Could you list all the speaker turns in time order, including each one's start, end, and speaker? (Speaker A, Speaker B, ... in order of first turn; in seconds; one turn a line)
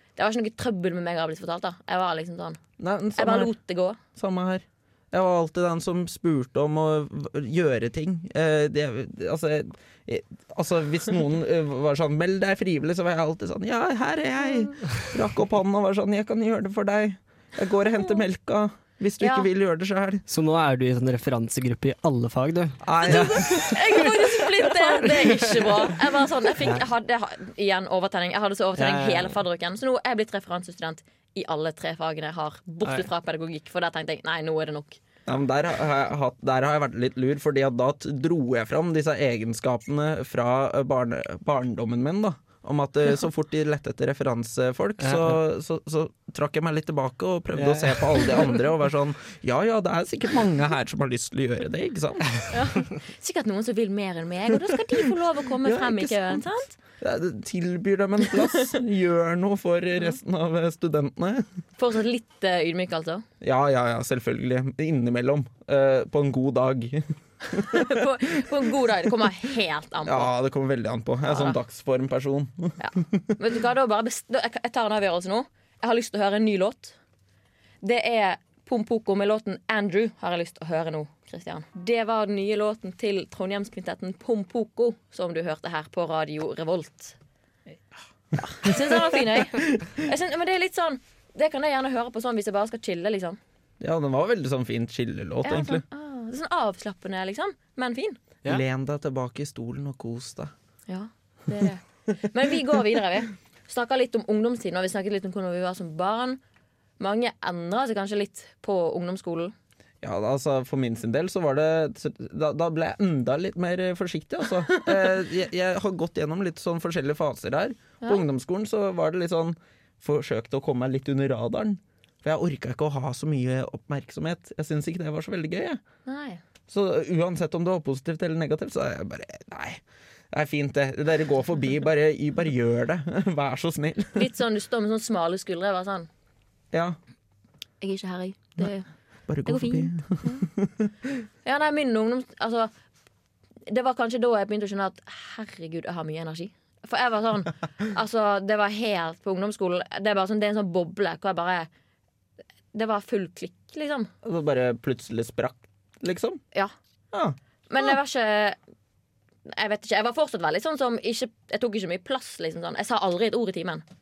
Speaker A: 0.2-2.6
Speaker B: 2.8-3.5
Speaker A: 3.2-4.0
Speaker B: 4.1-20.2
Speaker A: 19.2-19.5
Speaker C: 20.3-23.8
Speaker B: 22.8-24.1
Speaker A: 23.5-35.0
Speaker C: 25.2-25.5
Speaker C: 28.8-29.4
Speaker B: 35.3-52.5
Speaker C: 45.0-45.4
Speaker C: 47.5-48.5
Speaker A: 52.5-56.7
Speaker B: 55.6-61.5
Speaker A: 58.3-58.7
Speaker A: 61.8-63.2
Speaker B: 63.4-68.1
Speaker A: 67.5-70.3
Speaker B: 70.0-73.3
Speaker A: 71.2-71.6
Speaker A: 72.8-77.0
Speaker A: 77.8-87.2
Speaker A: 88.4-93.4
Speaker B: 88.6-90.0
Speaker B: 93.8-95.8
Speaker A: 95.4-98.2
Speaker B: 98.4-100.5
Speaker A: 100.9-106.4
Speaker A: 107.0-109.5
Speaker B: 110.0-125.8
Speaker A: 126.1-126.4
Speaker B: 126.7-134.2
Speaker A: 134.1-136.1
Speaker B: 136.7-137.0
Speaker A: 137.8-138.9
Speaker B: 139.3-141.1
Speaker A: 139.4-140.4
Speaker A: 141.4-142.7
Speaker A: 143.7-151.7
Speaker A: 152.7-154.1
Speaker B: 154.2-156.4
Speaker B: 157.1-157.4
Speaker A: 157.7-158.6
Speaker A: 159.5-163.8